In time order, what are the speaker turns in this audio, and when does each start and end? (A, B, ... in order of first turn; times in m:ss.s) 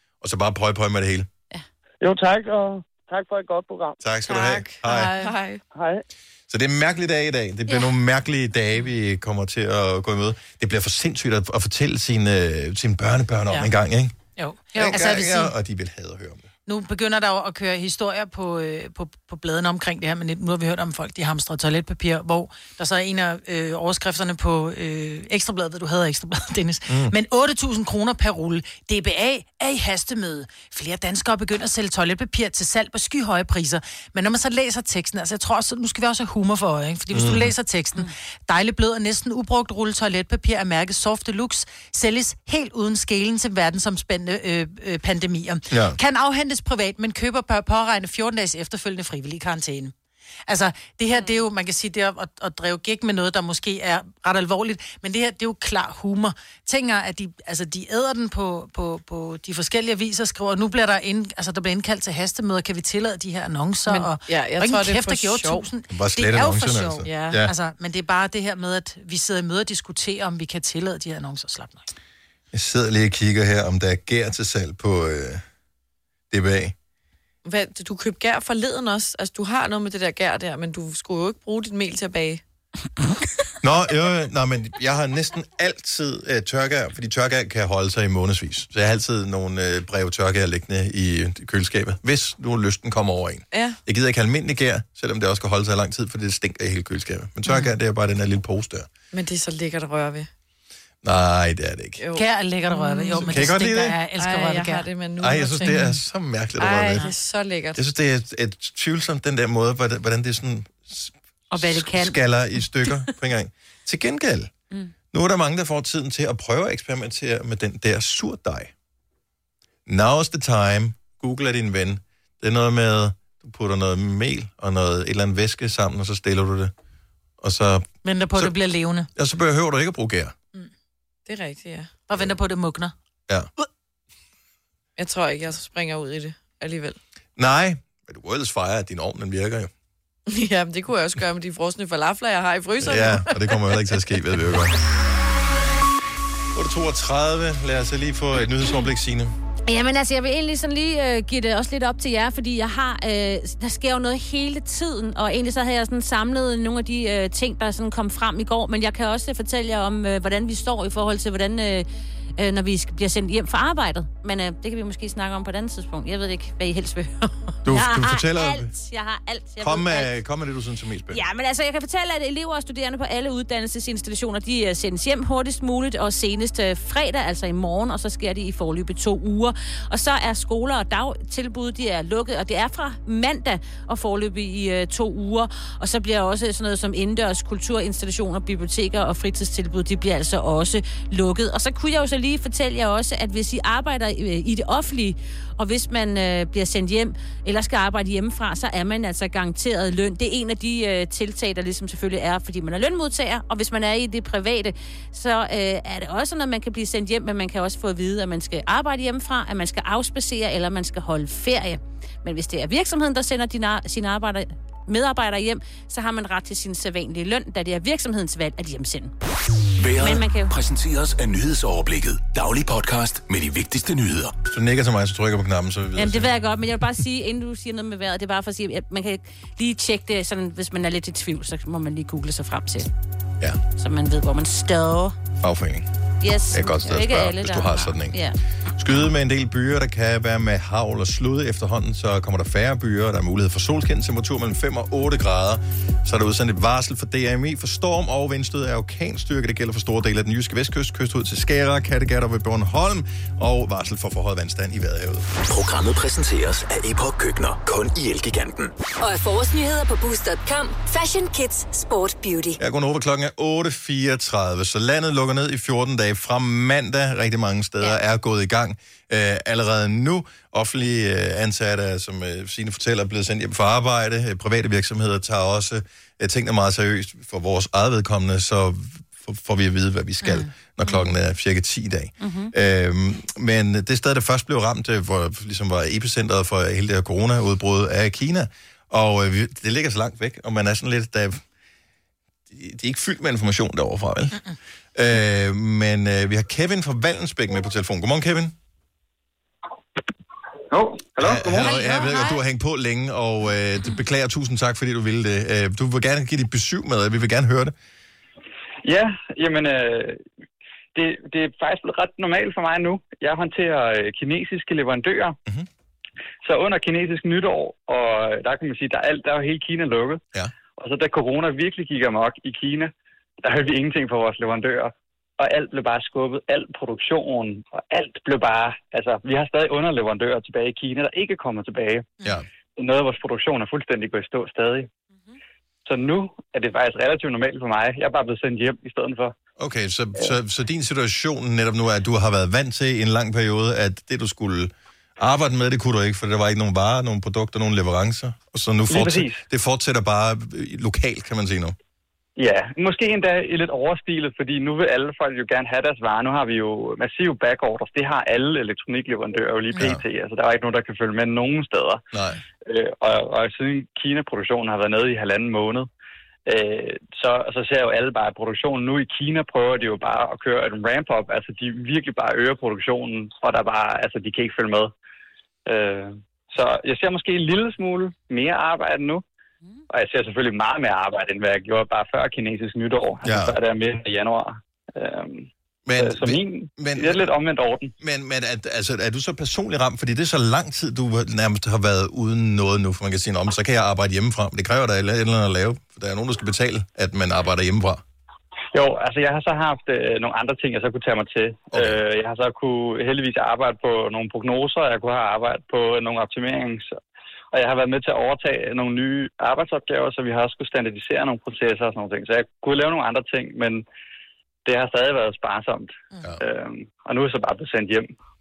0:00.2-0:01.3 A
0:02.0-0:04.0 B
0:04.0-0:05.1 A
0:04.3-0:05.6 C
0:05.7-0:06.0 B
0:06.5-0:14.1 A
0:14.4-0:15.5 D
0:14.7-0:16.5 A
0:16.7-0:49.9 D
0:26.9-0:27.1 A
0:37.1-0:37.5 A
0:45.7-0:46.0 A
0:50.5-1:11.9 D
1:03.9-1:05.7 C
1:05.9-1:07.5 A
1:12.5-1:15.4 A
1:16.3-1:16.8 A
1:17.4-1:22.4 C
1:23.6-1:38.9 A
1:33.5-1:33.8 C
1:39.1-1:40.3 C
1:41.0-1:42.0 A
1:42.0-1:43.4 C
1:42.2-1:44.9 D
1:43.3-1:44.0 A
1:44.2-1:45.9 C
1:45.2-1:47.1 A
1:46.6-1:47.8 C
1:47.8-1:54.5 A
1:51.5-1:52.2 E
1:55.1-1:58.7 A
1:59.9-2:06.7 A
2:07.4-2:08.6 A
2:08.0-2:09.1 D
2:09.2-2:10.3 A
2:11.3-2:11.9 C
2:12.1-2:12.9 D
2:15.0-2:17.0 C
2:17.4-2:19.7 A
2:20.3-2:23.4 C
2:22.8-2:24.8 A
2:26.6-2:29.3 A
2:29.7-2:50.1 E
2:47.6-2:48.7 A
2:49.6-2:51.2 A
2:51.1-3:39.1 E
3:39.8-3:44.4 F
3:40.0-3:40.5 E
3:44.5-3:46.3 A
3:46.0-3:52.9 E
3:53.8-3:55.2 E
3:55.4-3:55.9 A
3:56.2-3:58.4 E
3:56.5-3:58.2 A
3:58.8-4:15.3 A
4:15.4-4:18.7 F
4:19.0-4:22.6 G
4:22.6-4:51.4 A
4:42.2-4:42.5 E
4:52.5-4:54.4 A
4:55.0-4:58.5 A
5:01.2-5:07.7 A
5:01.5-5:02.4 D
5:08.8-5:10.2 H
5:11.0-5:15.4 H
5:16.4-5:20.2 H
5:20.8-5:22.9 H
5:23.4-5:32.1 H
5:32.8-5:34.9 H
5:35.9-5:39.4 H
5:39.6-5:51.8 A
5:48.9-5:49.4 H
5:52.4-6:02.0 H
5:59.7-6:00.0 A
6:02.1-6:02.4 A
6:02.6-6:05.9 H
6:06.5-6:14.9 H
6:15.7-6:19.2 H
6:19.9-6:27.9 H
6:23.2-6:23.6 A
6:25.9-6:27.3 A
6:28.0-6:38.0 A
6:38.7-6:46.9 H
6:41.7-6:42.0 A
6:47.5-6:53.8 H
6:54.6-6:58.1 H